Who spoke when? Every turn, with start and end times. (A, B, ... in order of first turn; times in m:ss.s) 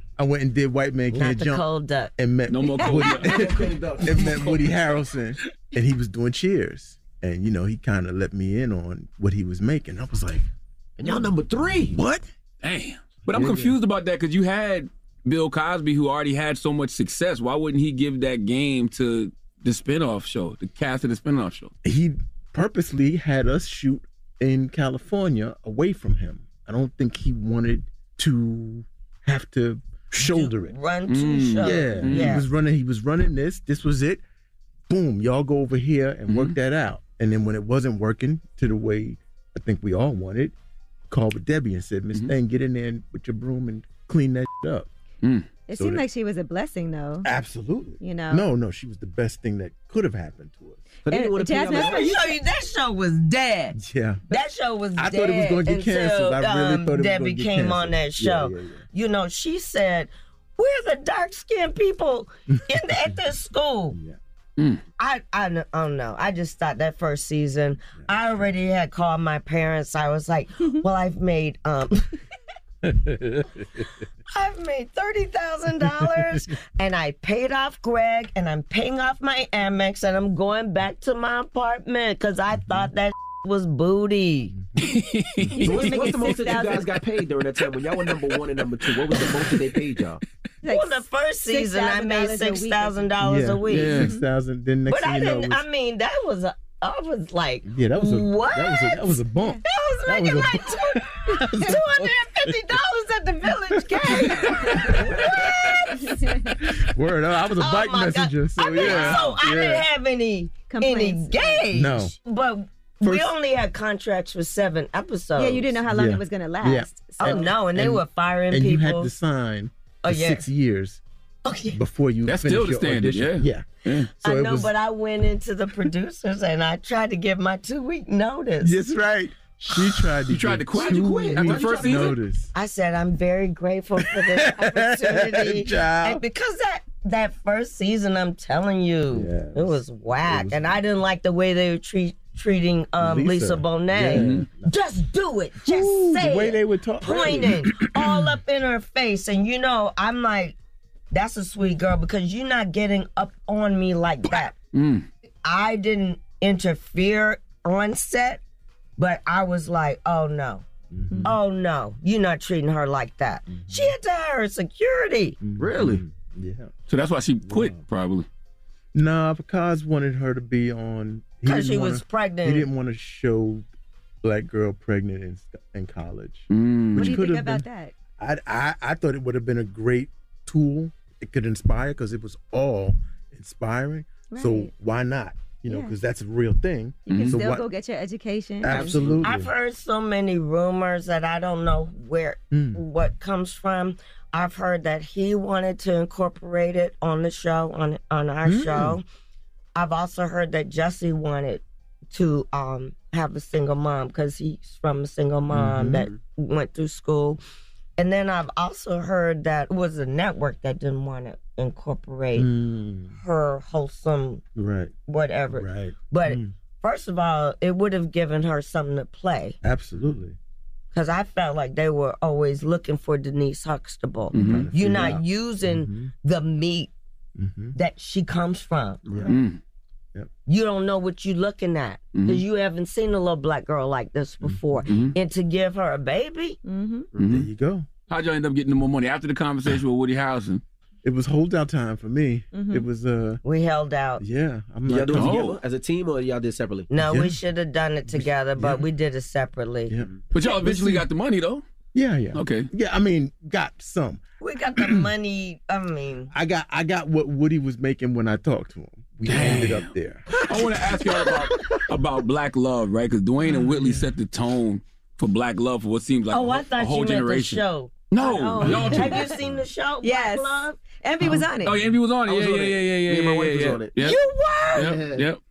0:00.2-0:01.7 A
0:01.1-0:02.1 B
0:02.2-0:10.5 A
0:02.5-0:03.7 C
0:03.0-0:04.7 D
0:11.0-0:12.0 D
0:11.9-0:12.3 A
0:12.6-0:21.7 C
0:13.3-0:13.8 A
0:21.8-0:30.8 A
0:30.2-0:32.4 B
0:31.1-0:32.4 C
0:31.6-0:34.2 A
0:34.9-0:40.6 A
0:36.3-0:36.6 C
0:41.1-0:44.9 A
0:45.7-0:47.3 E
0:45.8-0:46.0 A
0:47.2-0:50.8 A
0:48.0-0:48.5 E
0:51.0-0:52.3 D
0:51.1-0:52.2 E
0:51.7-0:53.8 B
0:53.7-0:54.2 A
0:54.3-1:04.0 B
0:55.0-0:58.8 A
1:02.5-1:03.2 A
1:03.9-1:04.2 A
1:05.0-1:12.1 B
1:07.9-1:08.5 A
1:12.9-1:13.4 A
1:14.4-1:24.5 B
1:15.9-1:16.4 A
1:24.5-1:24.9 A
1:24.8-1:26.4 C
1:25.6-1:30.2 D
1:25.6-1:26.8 E
1:30.6-1:33.1 E
1:30.6-1:34.0 B
1:33.2-1:35.6 A
1:33.7-1:34.1 C
1:34.9-1:39.1 B
1:37.6-1:42.6 A
1:39.6-1:46.0 B
1:43.7-1:45.4 A
1:46.1-1:46.5 E
1:46.6-1:49.9 A
1:47.6-1:55.8 B
1:50.6-1:51.7 E
1:51.7-1:52.2 A
1:53.0-1:53.3 A
1:55.4-1:57.5 E
1:55.9-2:01.0 A
1:57.2-1:59.1 B
2:00.0-2:00.5 B
2:01.4-2:01.8 B
2:01.8-2:03.7 A
2:02.3-2:04.1 C
2:04.2-2:08.8 B
2:04.2-2:04.7 A
2:08.6-2:12.5 A
2:10.3-2:12.2 C
2:10.7-2:12.2 D
2:12.5-2:30.6 B
2:14.0-2:16.2 A
2:19.1-2:20.8 A
2:23.0-2:24.7 A
2:24.1-2:24.5 C
2:25.6-2:28.4 A
2:31.1-2:34.5 B
2:34.7-2:35.1 C
2:35.4-2:38.4 B
2:39.0-2:40.7 B
2:40.9-2:41.4 A
2:41.2-2:45.4 B
2:43.5-2:43.9 A
2:45.4-2:46.7 A
2:45.6-2:46.0 D
2:46.9-2:48.3 C
2:47.5-2:47.8 A
2:48.9-2:53.7 A
2:51.4-2:52.7 B
2:54.2-2:57.6 A
2:56.5-2:57.2 C
2:57.0-2:57.9 E
2:58.2-3:07.7 A
3:04.3-3:04.7 E
3:05.7-3:05.9 E
3:07.1-3:09.0 E
3:07.1-3:07.4 C
3:08.6-3:09.5 A
3:08.7-3:09.3 D
3:09.2-3:19.0 B
3:12.5-3:12.8 A
3:18.4-3:19.0 A
3:19.8-3:27.4 B
3:25.5-3:26.1 A
3:28.0-3:32.5 B
3:32.4-3:33.2 A
3:33.2-3:34.4 B
3:34.6-3:34.9 A
3:35.1-3:39.6 B
3:35.5-3:36.5 A
3:39.6-3:40.4 A
3:40.9-3:46.9 B
3:44.3-3:46.1 A
3:44.3-3:44.7 C
3:47.4-3:47.8 A
3:47.8-3:49.0 B
3:49.1-3:49.4 A
3:49.3-3:49.6 C
3:50.5-3:56.6 B
3:52.1-3:52.4 C
3:54.4-3:54.8 A
3:54.9-3:55.2 C
3:56.6-3:57.1 E
3:57.2-3:57.5 C
3:57.2-3:57.9 A
3:58.1-4:00.6 C
4:01.0-4:03.4 A
4:02.5-4:02.8 E
4:03.4-4:04.2 B
4:04.2-4:05.5 A
4:04.8-4:06.9 D
4:05.1-4:05.6 C
4:06.9-4:10.0 B
4:07.0-4:07.4 A
4:08.1-4:08.9 A
4:09.9-4:11.0 A
4:10.3-4:11.6 C
4:12.0-4:14.2 A
4:12.4-4:12.7 C
4:14.4-4:16.3 B
4:14.8-4:15.0 A
4:16.3-4:20.8 A
4:19.3-4:29.3 C
4:23.4-4:24.1 A
4:26.3-4:27.9 B
4:28.2-4:29.4 E
4:28.6-4:29.6 A
4:28.8-4:30.8 B
4:30.0-4:31.8 E
4:31.2-4:34.2 C
4:32.3-4:34.0 D
4:34.0-4:34.9 B
4:34.7-4:35.4 C
4:34.8-4:35.2 D